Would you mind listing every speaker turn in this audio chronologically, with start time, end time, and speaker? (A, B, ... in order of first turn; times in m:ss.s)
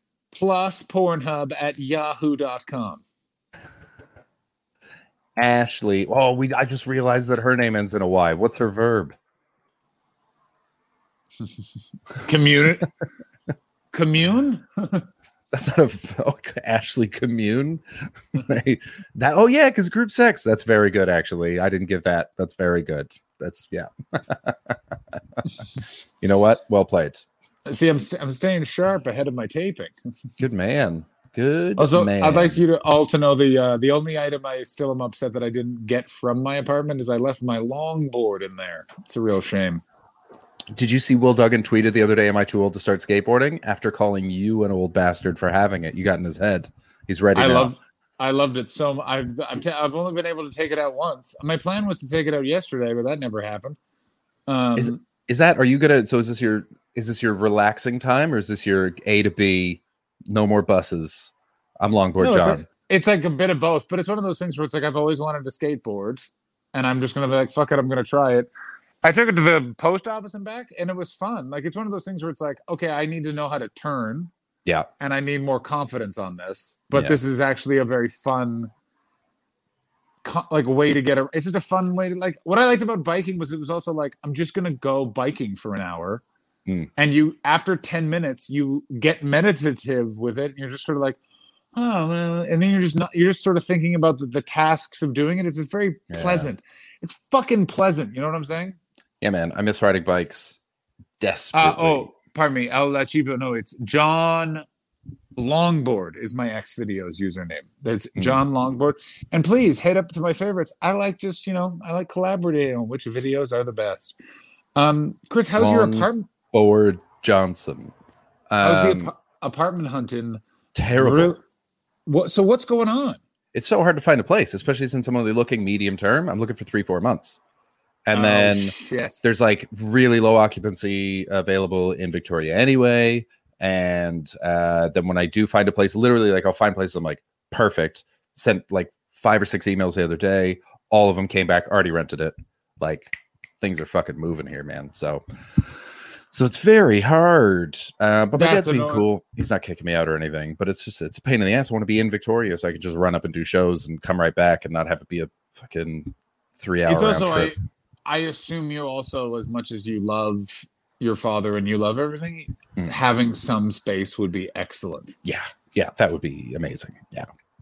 0:00.3-0:03.0 A
0:05.4-0:09.2 B
0:12.2-0:12.9 A
0:13.9-0:15.0 A
0:15.5-0:17.8 B
0:18.4-0:25.4 B
0:26.2-0:27.2 B
0:27.6-0:29.9 A
0:30.4-0:32.6 B
0:31.8-0:39.8 A
0:40.7-0:47.7 B
0:47.3-0:53.8 A
0:54.5-0:55.0 A
0:54.8-1:02.6 B
1:02.2-1:08.5 A
1:09.0-1:14.3 A
1:15.0-1:18.7 A
1:16.9-1:17.2 B
1:20.2-1:26.2 A
1:27.0-1:31.2 A
1:31.7-1:38.8 A
1:36.1-1:36.5 B
1:39.2-1:40.6 B
1:41.2-1:42.1 B
1:41.5-1:44.6 A
1:45.4-1:54.1 A
1:48.2-1:48.4 B
1:54.7-1:56.3 A
1:55.6-1:57.9 B
1:58.5-1:59.1 B
1:58.6-2:00.4 A
2:00.7-2:01.4 B
2:01.0-2:01.4 A
2:02.0-2:03.2 A
2:03.5-2:07.4 B
2:08.0-2:25.2 B
2:08.1-2:09.2 A
2:26.3-2:37.6 B
2:28.3-2:29.0 A
2:36.8-2:45.1 A
2:45.2-2:47.3 B